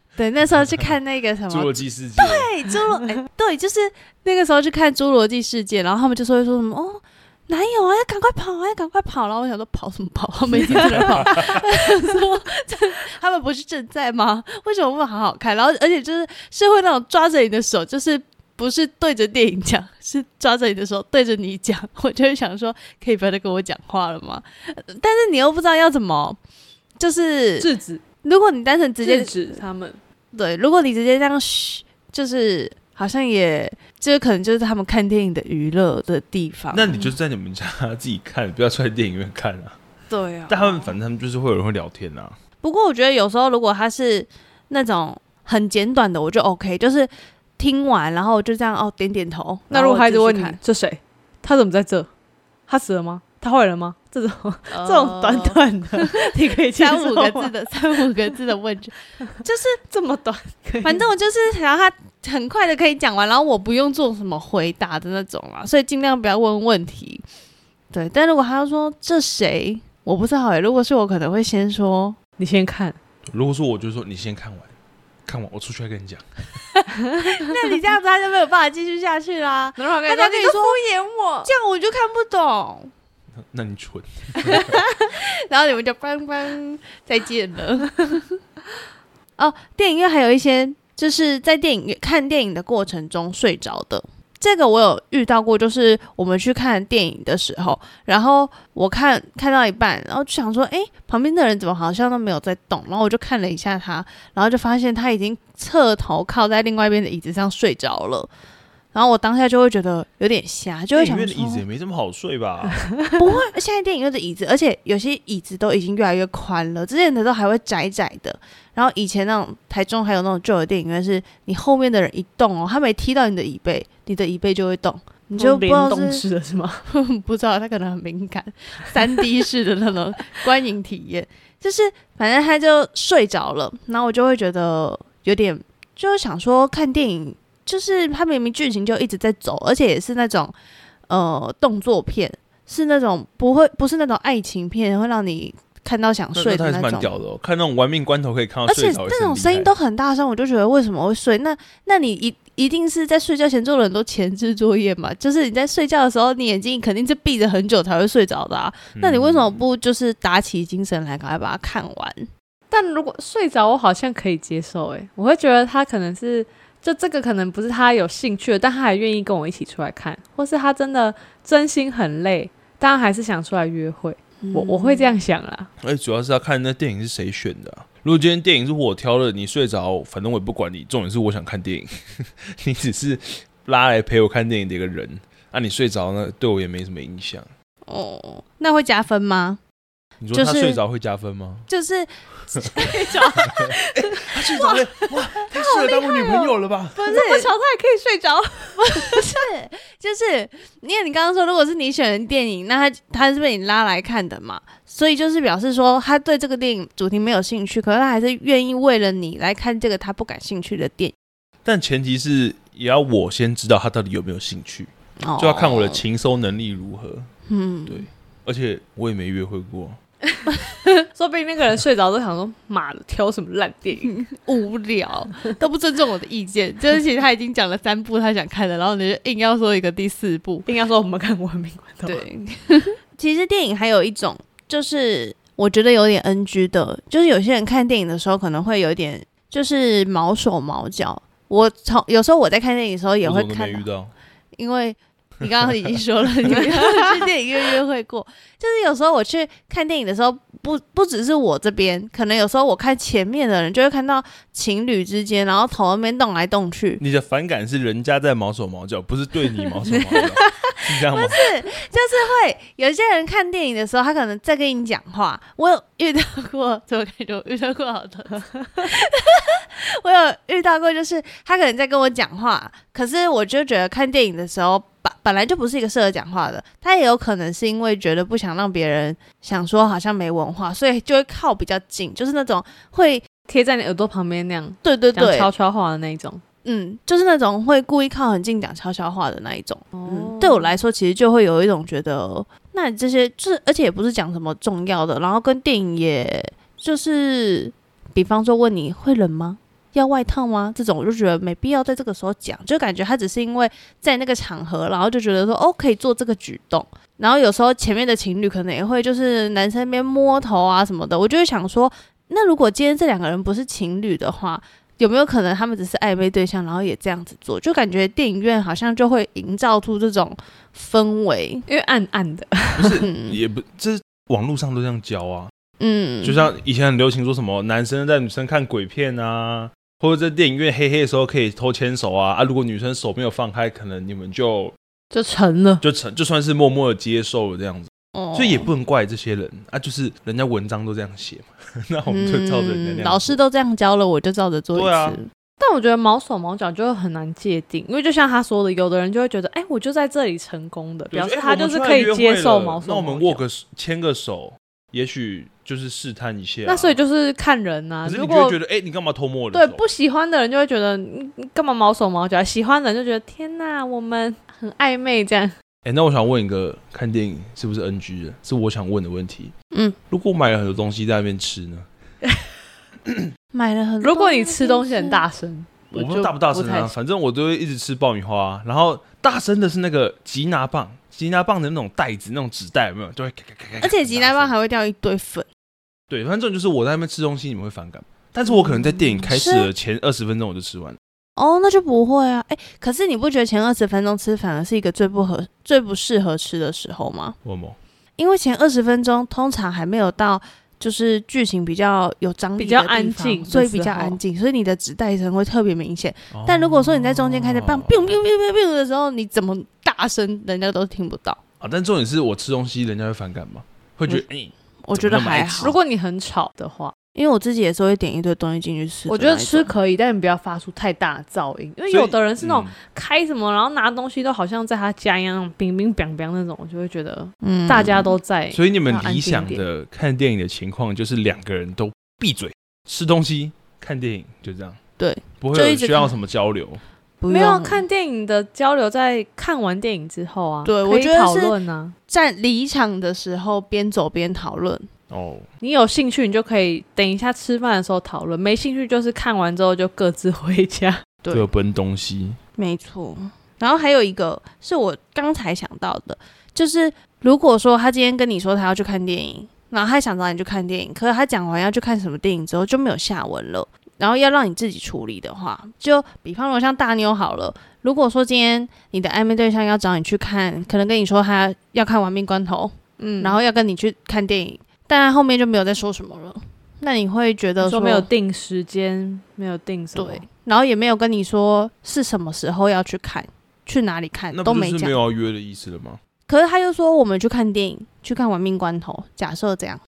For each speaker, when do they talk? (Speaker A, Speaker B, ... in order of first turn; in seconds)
Speaker A: 0.2-26.4, 27.0-27.7, 28.2-29.6, 30.3-37.1, 40.1-41.0, 42.6-50.6, 54.7-59.8, 60.8-67.2, 67.9-72.2, 76.8-80.8, 81.4-82.9, 84.4-88.3, 89.4-108.3, 108.9-111.6, 113.2-126.2, 126.9-140.5, 141.1-147.2, 148.7-162.3, 174.4-175.1, 187.9-189.6, 190.3-190.8, 191.7-193.8, 194.3-194.8, 195.5-197.5, 198.8-211.1, 215.2-216.0, 217.5-218.1, 224.0-230.7, 232.1-243.8, 244.5-257.0, 261.0-283.2, 284.8-285.5, 286.6-321.6, 323.0-323.4, 325.8-326.5, 338.1-338.7, 342.1-345.3, 369.7-370.0, 373.5-375.2, 383.8-385.5, 388.5-389.7, 391.4-397.4, 398.2-411.4, 414.8-415.8, 417.1-419.7, 427.4-428.1, 435.0-436.1, 437.2-437.8, 440.6-441.6, 442.1-444.9, 452.6-478.1, 479.9-485.0, 486.3-489.8
Speaker B: 0.6-0.9, 1.5-2.5, 10.9-11.6, 36.7-39.8, 40.5-42.4, 73.2-74.7, 75.2-76.2, 83.5-84.8, 111.0-112.9, 146.3-149.7, 158.9-159.6, 175.8-187.5, 190.2-191.7, 192.6-192.9, 193.4-197.1, 211.6-217.3, 217.9-220.0, 243.2-244.1, 257.0-261.4, 322.8-325.5, 326.2-334.7, 335.8-343.4, 344.7-345.2, 351.1-357.0, 358.0-359.8, 365.8-369.5, 370.1-371.9, 375.9-384.5, 386.1-391.0, 397.4-397.8, 406.3-408.2, 411.6-415.8, 421.9-422.7, 428.5-434.8, 435.4-436.8, 445.1-445.5, 451.3-452.4, 484.3-486.0
Speaker C: 10.5-11.6, 27.6-28.0, 29.0-30.0, 49.7-52.1, 52.7-57.5, 59.9-61.0, 72.4-73.0, 79.8-81.5, 125.4-126.8, 162.7-175.7, 192.8-193.9, 197.0-199.4, 221.1-224.2, 230.6-232.2, 246.5-247.1, 283.5-286.4, 289.9-290.7, 321.7-323.0, 335.1-335.8, 345.6-353.4, 356.6-358.6, 359.5-365.5, 374.0-376.9, 402.6-404.2, 415.6-416.9, 419.1-429.6, 437.3-441.9, 445.6-451.1, 473.0-473.4, 477.6-480.2